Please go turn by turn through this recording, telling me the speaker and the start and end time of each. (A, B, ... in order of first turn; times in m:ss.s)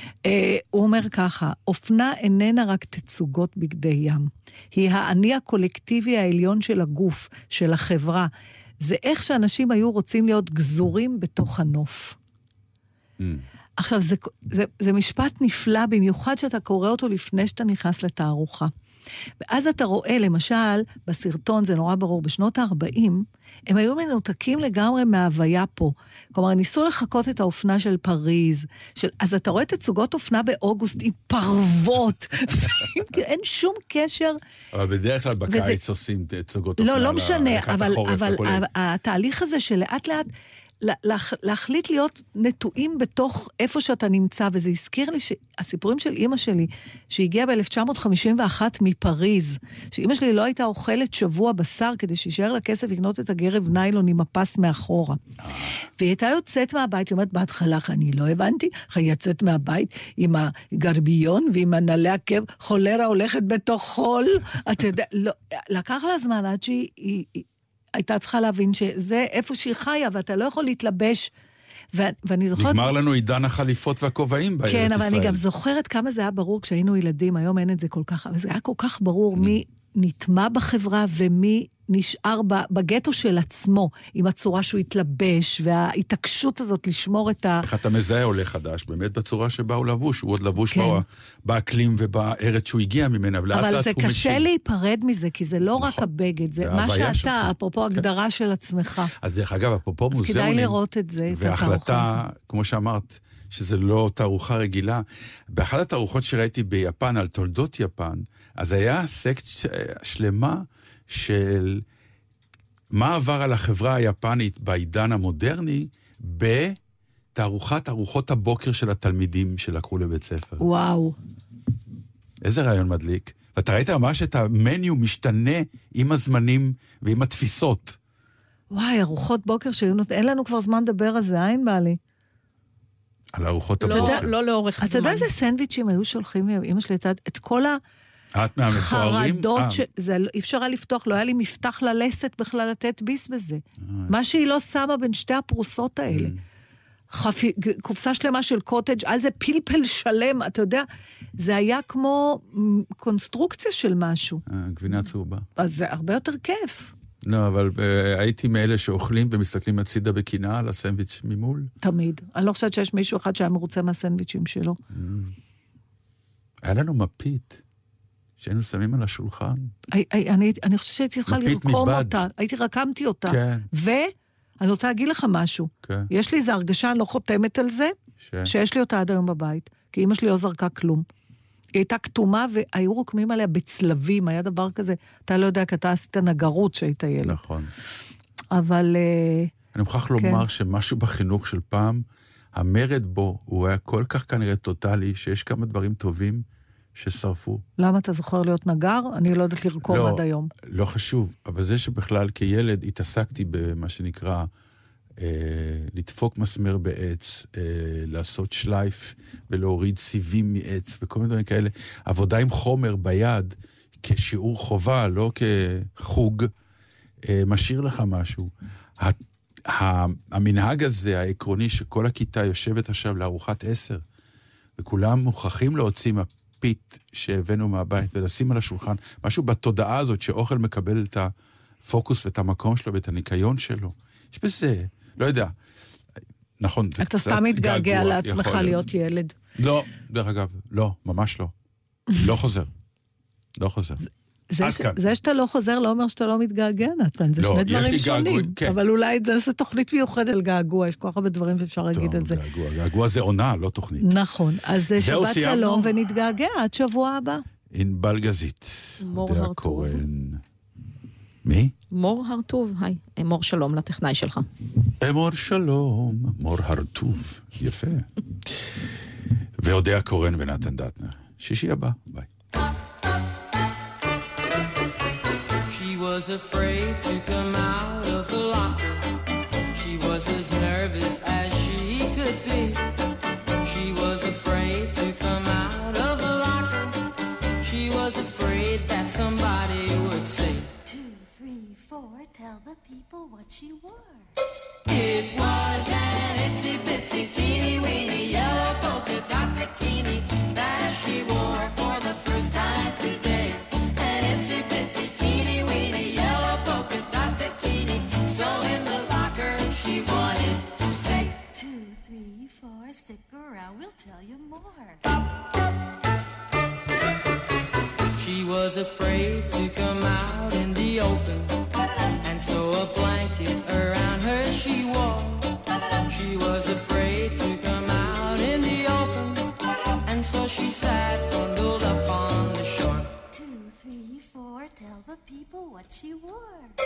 0:00.2-0:12.2 A
0:13.8-0:18.7 A
0:19.4-0:34.4 A
0:34.7-0:38.6 B
0:35.5-0:35.8 A
0:36.8-0:40.3 A
0:40.8-0:55.2 A
0:55.4-0:55.7 B
0:56.0-1:11.3 A
1:11.9-1:12.9 A
1:12.5-1:15.4 B
1:14.7-1:27.6 A
1:19.3-1:19.6 B
1:27.6-1:34.5 B
1:30.7-1:31.0 A
1:33.5-1:39.1 A
1:35.8-1:36.0 B
1:36.6-1:38.0 B
1:39.2-1:40.8 B
1:40.2-1:42.2 A
1:41.3-1:51.8 B
1:52.9-1:56.8 B
1:57.3-2:00.6 B
2:00.6-2:01.2 A
2:02.4-2:08.0 B
2:08.7-2:12.0 A
2:13.3-2:14.3 B
2:13.8-2:15.3 C
2:13.9-2:14.2 A
2:14.8-2:17.8 A
2:18.3-2:19.8 B
2:18.7-2:26.3 A
2:23.9-2:24.2 B
2:26.1-2:26.4 B
2:27.1-2:30.8 A
2:31.4-2:34.4 A
2:34.5-2:35.4 B
2:35.6-2:36.9 A
2:37.2-2:41.7 B
2:41.8-2:44.8 A
2:44.9-2:45.3 B
2:46.6-2:47.6 B
2:48.4-2:49.7 B
2:49.9-2:57.9 A
2:51.3-2:52.2 B
2:53.3-2:53.6 B
2:55.8-2:56.1 B
2:58.2-2:58.5 B
2:58.4-3:01.0 A
3:01.7-3:07.4 A
3:07.2-3:07.7 B
3:08.5-3:09.5 A
3:09.7-3:12.0 B
3:10.2-3:10.4 A
3:12.5-3:17.6 B
3:17.8-3:20.5 A
3:19.8-3:24.5 B
3:25.2-3:36.5 B
3:37.2-3:44.0 B
3:44.8-3:51.3 B
3:51.8-3:55.5 B
3:56.6-3:58.8 B
3:57.0-3:59.3 A
3:59.6-4:01.5 B
4:02.1-4:02.7 B
4:03.6-4:04.0 B
4:04.5-4:12.4 A
4:04.6-4:05.0 B
4:07.4-4:08.8 B
4:11.9-4:14.1 B
4:14.0-4:17.4 A
4:14.9-4:15.9 B
4:17.7-4:20.4 B
4:19.0-4:20.0 C
4:21.4-4:21.7 B
4:21.9-4:24.5 C
4:25.0-4:28.6 B
4:29.6-4:32.3 B
4:35.7-4:39.1 D
4:39.7-4:42.8 D
4:43.6-4:47.0 D
4:47.6-4:50.7 D
4:50.8-4:54.3 E
4:54.8-5:11.4 D
5:11.5-5:15.0 E
5:18.2-5:21.5 D
5:22.2-5:25.5 D
5:26.1-5:29.5 D
5:30.0-5:33.1 D
5:33.3-5:36.7 E